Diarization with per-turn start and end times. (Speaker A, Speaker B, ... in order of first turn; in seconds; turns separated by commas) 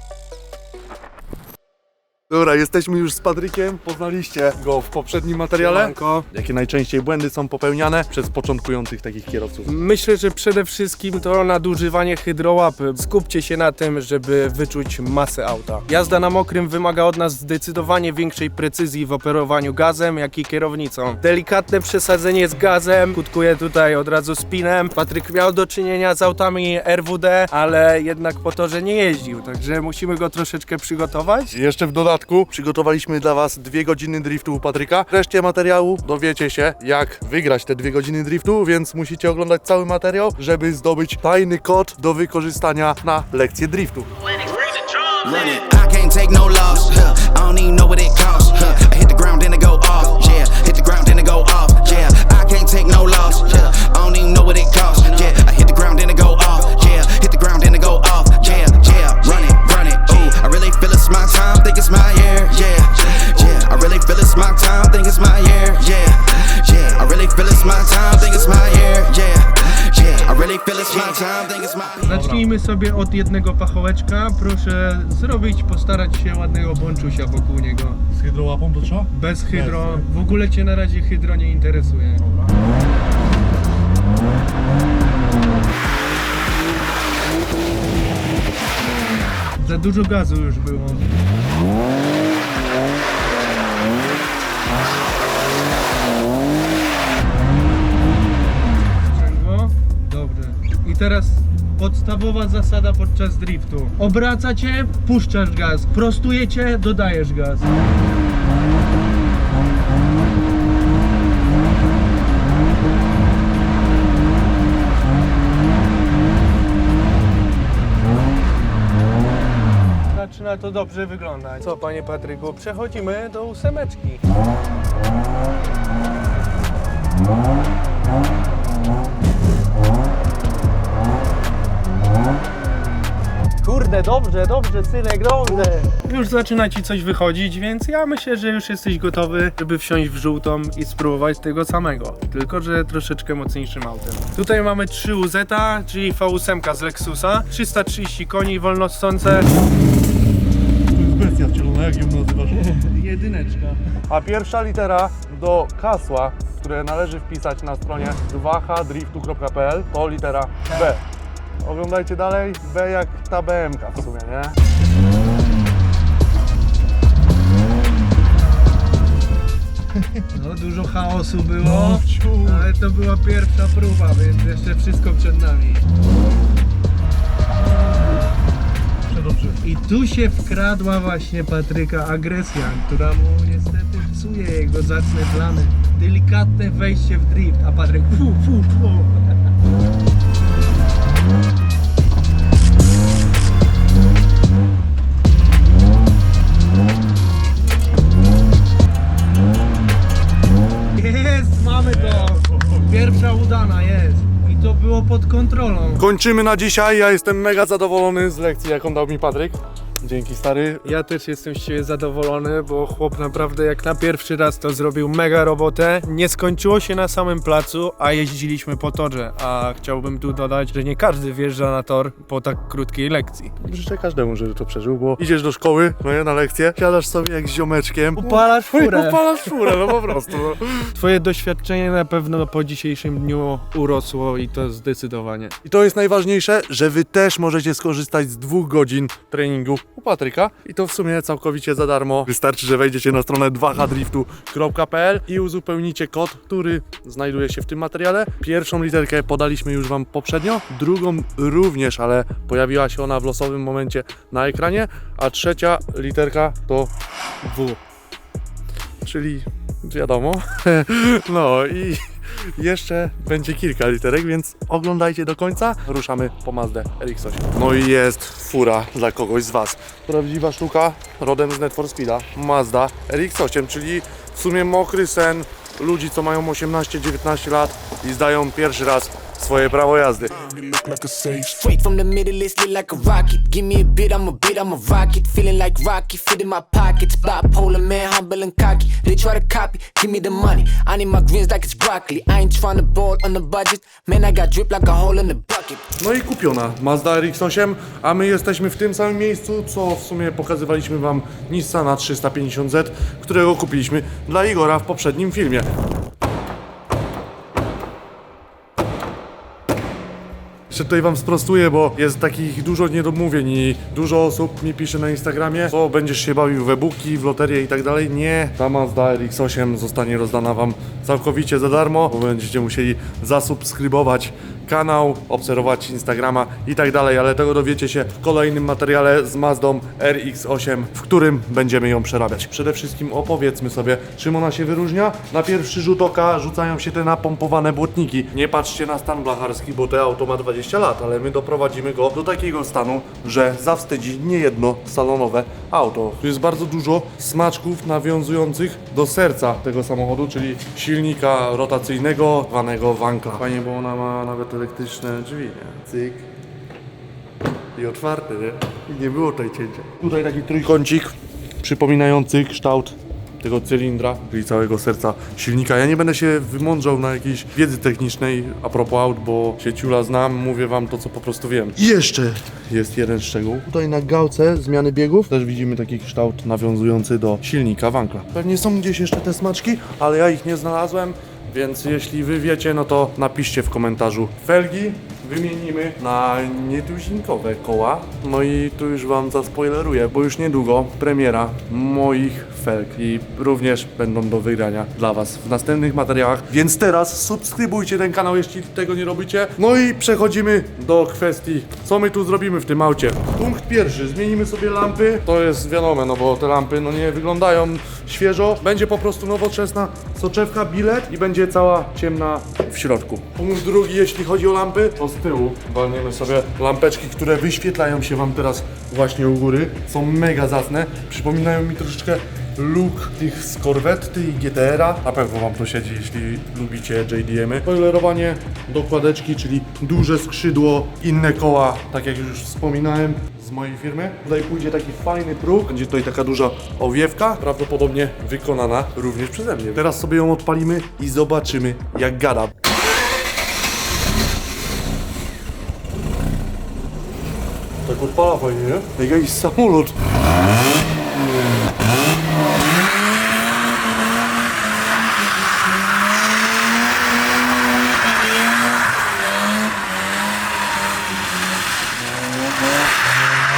Speaker A: 2.3-9.7, Speaker B: 5.6-6.2, Speaker B: 9.7-31.5, Speaker A: 31.5-44.1, Speaker C: 44.5-72.1, Speaker B: 72.0-78.0, Speaker A: 72.1-72.4, Speaker A: 78.1-80.1, Speaker B: 79.1-82.6, Speaker B: 89.6-91.2, Speaker B: 99.0-107.8, Speaker B: 120.1-124.2, Speaker B: 133.6-149.5, Speaker A: 150.9-153.1, Speaker B: 152.7-153.8, Speaker A: 153.9-161.0, Speaker A: 161.6-164.6, Speaker B: 170.3-175.9, Speaker A: 171.6-172.7, Speaker A: 179.1-179.6, Speaker B: 179.6-189.4, Speaker B: 201.0-206.0, Speaker A: 206.0-210.9, Speaker B: 210.8-223.5, Speaker A: 223.6-230.9, Speaker B: 228.2-229.9, Speaker B: 230.9-235.6, Speaker A: 235.6-257.8, Speaker A: 259.0-280.5, Speaker D: 280.5-295.9, Speaker A: 296.0-305.7, Speaker A: 310.7-356.3, Speaker A: 357.8-442.5, Speaker A: 447.9-450.0